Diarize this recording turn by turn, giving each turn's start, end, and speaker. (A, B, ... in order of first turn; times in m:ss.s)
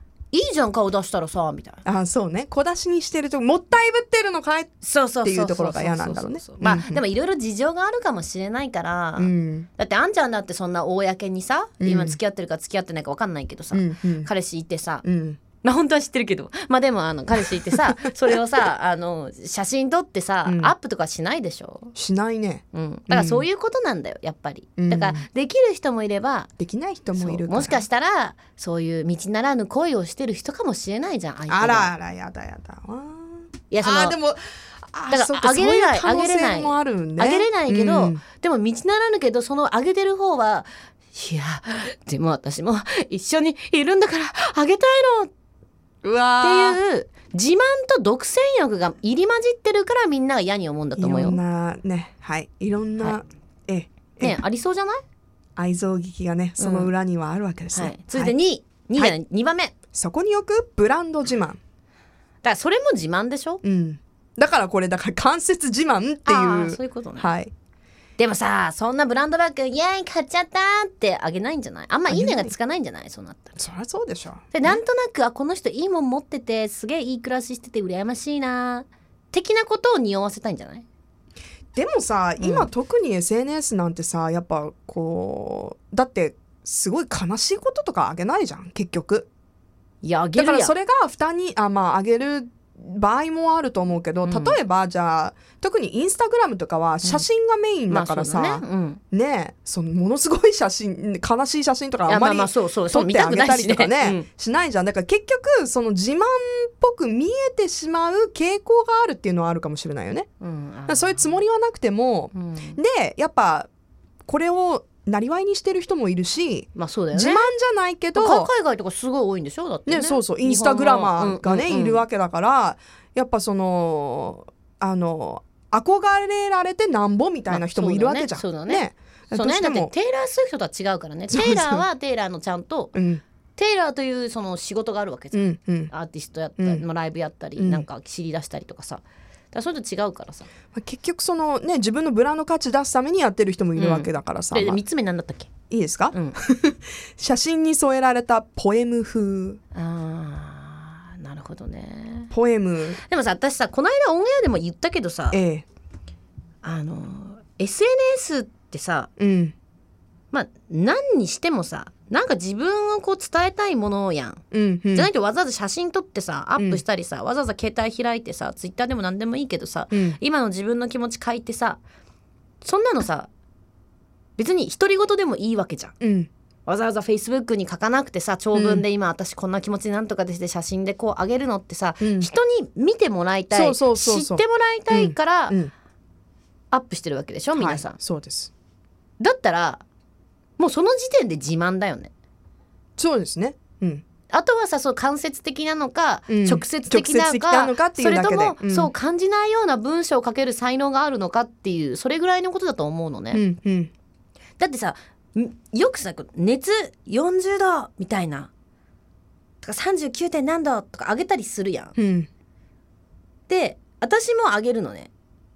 0:00.3-0:01.8 A
0:01.8-0:07.0 B
0:04.8-0:15.0 A
0:09.2-0:09.7 B
0:11.8-0:12.2 B
0:13.7-0:14.3 B
0:15.0-0:15.4 B
0:15.6-0:21.9 A
0:20.5-0:20.7 B
0:22.0-0:23.5 B
0:22.7-0:26.5 A
0:24.8-0:25.3 B
0:26.6-0:27.9 B
0:27.2-0:31.9 A
0:31.5-0:38.2 B
0:33.7-0:34.2 A
0:35.1-0:45.3 A
0:46.0-0:46.8 B
0:46.4-0:51.4 A
0:51.0-0:54.4 B
0:54.2-0:55.0 A
0:55.6-0:58.4 B
0:56.6-0:56.9 A
0:57.7-0:59.7 A
0:59.9-1:01.6 B
1:02.4-1:03.6 A
1:03.6-1:07.5 B
1:06.3-1:07.3 A
1:08.2-1:13.6 A
1:12.1-1:12.5 B
1:13.6-1:14.8 B
1:14.5-1:20.8 A
1:21.8-1:29.3 B
1:22.4-1:22.7 A
1:30.0-1:30.7 A
1:30.4-1:50.3 B
1:34.2-1:34.6 A
1:37.9-1:39.0 A
1:42.1-1:44.3 A
1:50.4-1:51.3 A
1:50.9-1:53.7 B
1:52.3-1:52.8 A
1:54.3-1:58.5 B
1:56.8-1:57.5 A
1:58.2-2:02.0 A
1:59.9-2:09.9 B
2:07.5-2:12.9 A
2:11.3-2:11.8 B
2:12.9-2:13.2 B
2:13.6-2:20.5 A
2:15.3-2:15.9 B
2:16.6-2:16.8 B
2:17.6-2:17.9 B
2:20.7-2:24.8 B
2:23.8-2:25.5 A
2:25.7-2:29.6 B
2:26.1-2:26.4 A
2:29.8-2:32.3 A
2:32.3-2:33.0 B
2:33.1-2:35.4 A
2:35.3-2:35.6 B
2:36.6-2:39.1 A
2:39.2-2:39.5 B
2:40.3-2:44.4 A
2:44.5-2:45.1 B
2:44.9-2:51.8 A
2:46.6-2:46.8 B
2:49.9-2:50.2 B
2:52.6-2:53.3 A
2:54.4-2:56.0 A
2:56.0-2:56.3 B
2:56.7-3:05.6 A
2:58.5-2:58.8 B
3:02.0-3:02.3 B
3:03.5-3:05.7 B
3:06.7-3:08.0 A
3:07.6-3:08.5 B
3:09.2-3:09.8 A
3:10.6-3:12.1 A
3:13.0-3:14.0 B
3:14.3-3:23.4 A
3:16.3-3:18.9 B
3:23.3-3:23.9 B
3:24.6-3:28.5 A
3:29.6-3:32.0 A
3:32.0-3:32.3 B
3:33.5-3:35.1 A